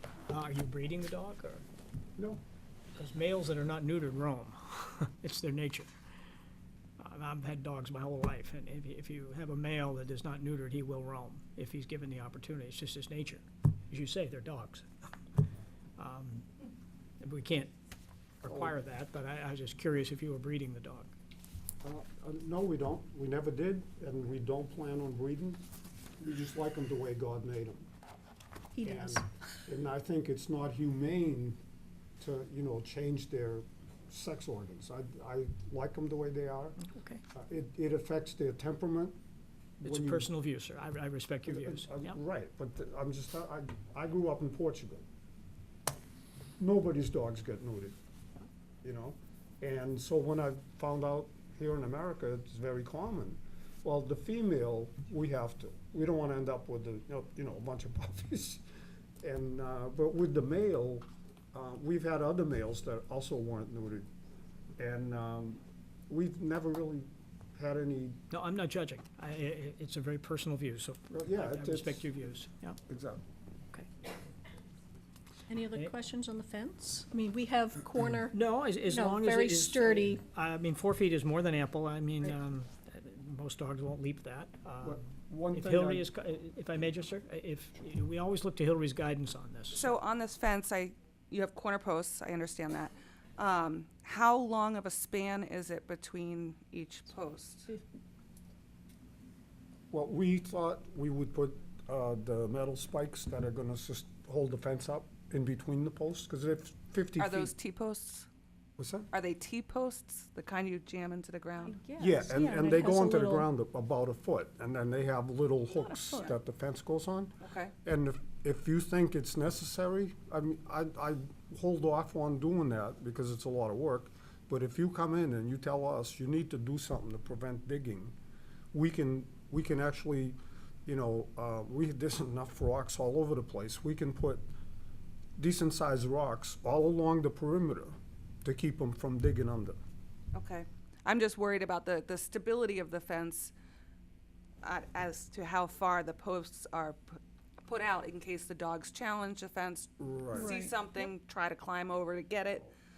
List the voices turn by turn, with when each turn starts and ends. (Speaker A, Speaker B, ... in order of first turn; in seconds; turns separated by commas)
Speaker A: 0.3-1.6, Speaker A: 3.0-5.9, Speaker A: 7.0-14.9, Speaker A: 16.0-16.5, Speaker A: 17.2-17.7, Speaker A: 18.4-21.1, Speaker B: 18.5-18.8, Speaker B: 21.8-25.6, Speaker B: 26.2-27.9, Speaker C: 28.7-29.2, Speaker B: 28.9-31.6, Speaker B: 32.2-36.8, Speaker B: 37.3-39.2, Speaker A: 39.8-42.2, Speaker B: 39.8-40.3, Speaker B: 41.5-45.0, Speaker B: 46.6-48.0, Speaker B: 48.8-58.6, Speaker B: 59.2-64.1, Speaker B: 64.8-68.2, Speaker A: 68.3-72.8, Speaker B: 71.1-72.2, Speaker B: 72.9-73.2, Speaker C: 75.5-80.2, Speaker A: 78.3-85.0, Speaker B: 84.8-86.1, Speaker A: 85.5-89.9, Speaker D: 89.7-97.7, Speaker B: 99.9-107.5, Speaker D: 107.2-108.3, Speaker B: 108.8-109.1, Speaker D: 109.1-111.8, Speaker C: 111.6-113.5, Speaker B: 112.0-128.1, Speaker C: 115.9-116.3, Speaker D: 117.4-117.7, Speaker B: 128.7-134.4, Speaker B: 135.4-139.8, Speaker D: 140.3-143.5, Speaker D: 144.6-152.7, Speaker B: 150.0-150.5, Speaker C: 150.3-150.9